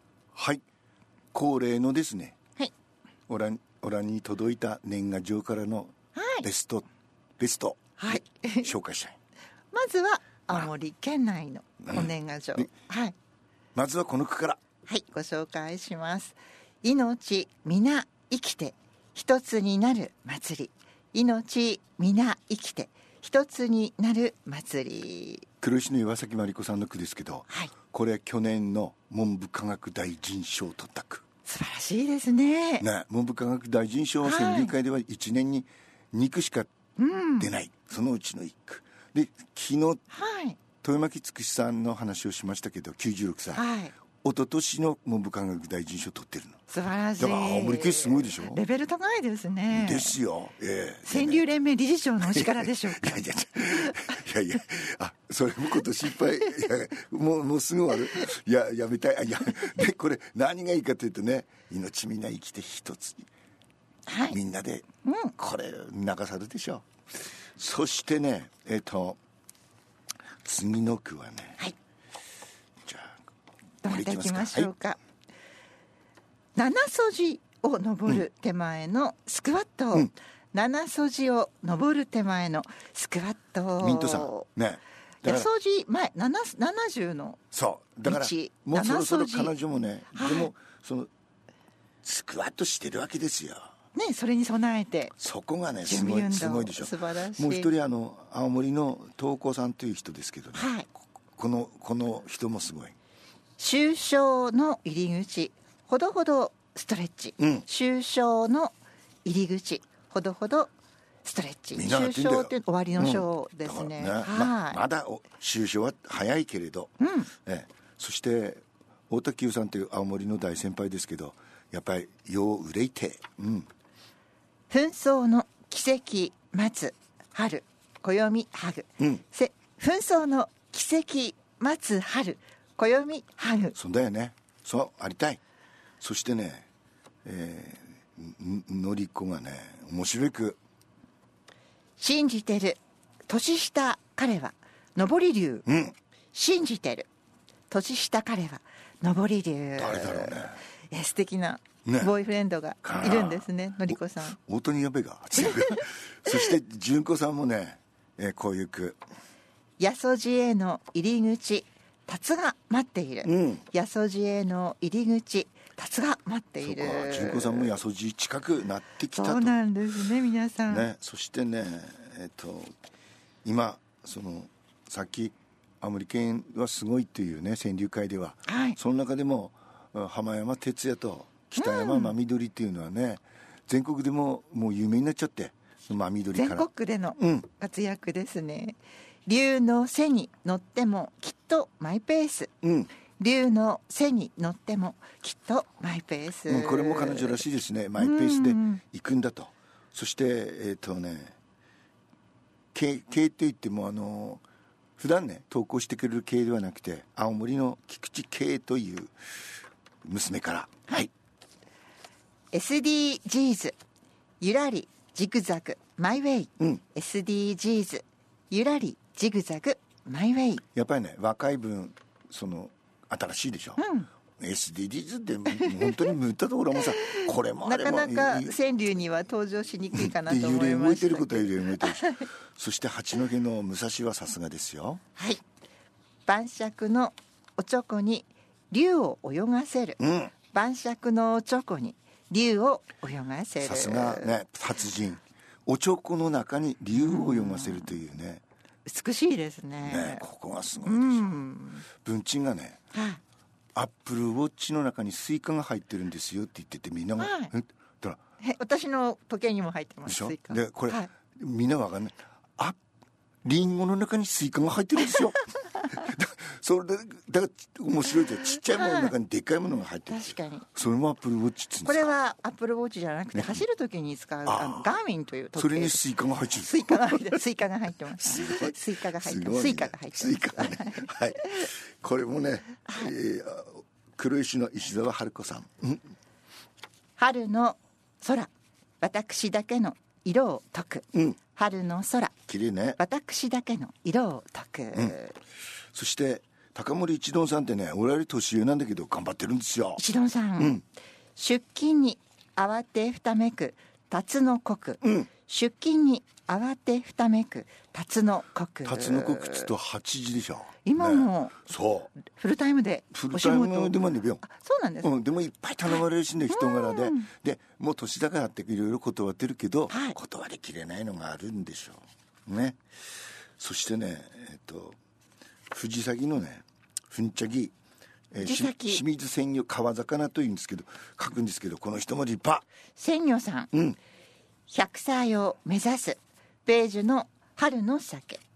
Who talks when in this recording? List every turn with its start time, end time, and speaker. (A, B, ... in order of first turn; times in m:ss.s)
0:00.4-0:00.6 A
0:01.3-0:02.4 A
0:03.3-0:06.8 A
0:06.2-0:06.5 B
0:07.4-0:09.2 A
0:08.0-0:08.7 B
0:09.7-0:13.2 B
0:11.8-0:12.7 A
0:13.8-0:14.6 A
0:14.9-0:25.5 B
0:25.6-0:31.2 A
0:31.5-0:32.9 B
0:32.8-0:36.7 A
0:34.2-0:34.7 B
0:37.0-0:37.5 B
0:37.4-0:40.0 A
0:40.1-0:40.6 B
0:40.8-0:43.6 A
0:43.6-0:43.9 B
0:44.2-0:46.6 A
0:46.7-0:50.2 B
0:47.2-0:48.6 A
0:49.7-0:51.5 A
0:51.1-0:53.2 B
0:52.2-1:03.3 A
0:53.8-0:54.1 B
1:04.1-1:04.4 B
1:04.3-1:04.8 A
1:05.0-1:05.3 B
1:05.4-1:06.9 A
1:07.6-1:09.2 A
1:10.4-1:11.6 A
1:12.8-1:13.2 A
1:13.8-1:15.0 B
1:13.8-1:14.7 A
1:16.6-1:24.5 B
1:23.8-1:25.5 A
1:25.2-1:27.4 B
1:27.5-1:31.1 A
1:28.0-1:29.5 B
1:30.1-1:30.5 B
1:32.0-1:33.7 A
1:34.0-1:35.1 B
1:35.2-1:43.0 A
1:35.8-1:37.7 B
1:40.6-1:40.9 B
1:43.6-1:48.7 B
1:47.4-1:47.7 A
1:49.2-1:50.7 B
1:51.2-1:54.8 B
1:51.8-2:03.7 A
1:57.0-1:57.3 B
2:04.7-2:13.8 B
2:13.8-2:15.4 A
2:16.0-2:16.7 A
2:17.2-2:20.6 A
2:22.0-2:25.6 B
2:25.7-2:26.0 A
2:26.3-2:27.1 B
2:27.7-2:34.4 B
2:29.8-2:30.6 A
2:31.8-2:32.1 A
2:32.8-2:39.0 A
2:35.4-2:35.8 B
2:39.8-2:47.8 B
2:43.2-2:43.6 A
2:46.6-2:49.6 A
2:49.1-2:50.9 B
2:50.7-2:52.7 A
2:53.4-3:07.5 A
2:58.5-2:58.8 B
3:01.6-3:02.2 B
3:06.3-3:12.5 B
3:12.6-3:12.9 A
3:13.2-3:17.4 B
3:16.5-3:21.4 A
3:18.0-3:18.8 B
3:22.7-3:24.4 A
3:25.0-3:29.1 A
3:30.0-3:31.1 A
3:32.5-3:33.8 B
3:34.4-3:40.6 B
3:40.8-3:43.8 A
3:43.8-3:44.1 B
3:44.4-3:48.6 A
3:45.6-3:46.1 B
3:47.0-3:52.3 B
3:49.9-3:55.0 A
3:55.2-3:55.4 B
3:56.3-4:04.4 B
4:00.0-4:00.3 A
4:03.6-4:08.4 A
4:06.9-4:08.0 B
4:08.9-4:10.2 B
4:09.8-4:11.4 A
4:10.8-4:11.9 B
4:12.0-4:12.8 A
4:12.9-4:13.2 B
4:13.8-4:18.2 A
4:17.2-4:17.5 B
4:18.4-4:21.1 B
4:20.1-4:22.8 A
4:23.4-4:32.1 A
4:28.7-4:29.1 B
4:30.1-4:30.7 B
4:31.8-4:36.0 B
4:33.4-4:33.6 A
4:34.5-4:34.9 A
4:35.6-4:37.3 A
4:36.6-4:41.7 B
4:38.2-4:46.0 A
4:42.9-4:43.1 B
4:47.2-4:52.3 B
4:52.5-4:53.0 A
4:53.0-4:55.4 B
4:55.9-5:00.0 A
5:00.0-5:00.8 B
5:01.4-5:09.7 B
5:05.0-5:05.3 A
5:08.9-5:12.2 A
5:10.8-5:11.6 B
5:12.2-5:15.1 B
5:13.1-5:14.4 A
5:15.0-5:22.8 A
5:15.9-5:17.3 B
5:19.9-5:20.2 B
5:23.6-5:25.0 A
5:25.7-5:27.7 A
5:28.3-5:32.7 A
5:28.4-5:29.0 B
5:33.0-5:33.7 B
5:33.7-5:34.0 A
5:34.7-5:38.4 B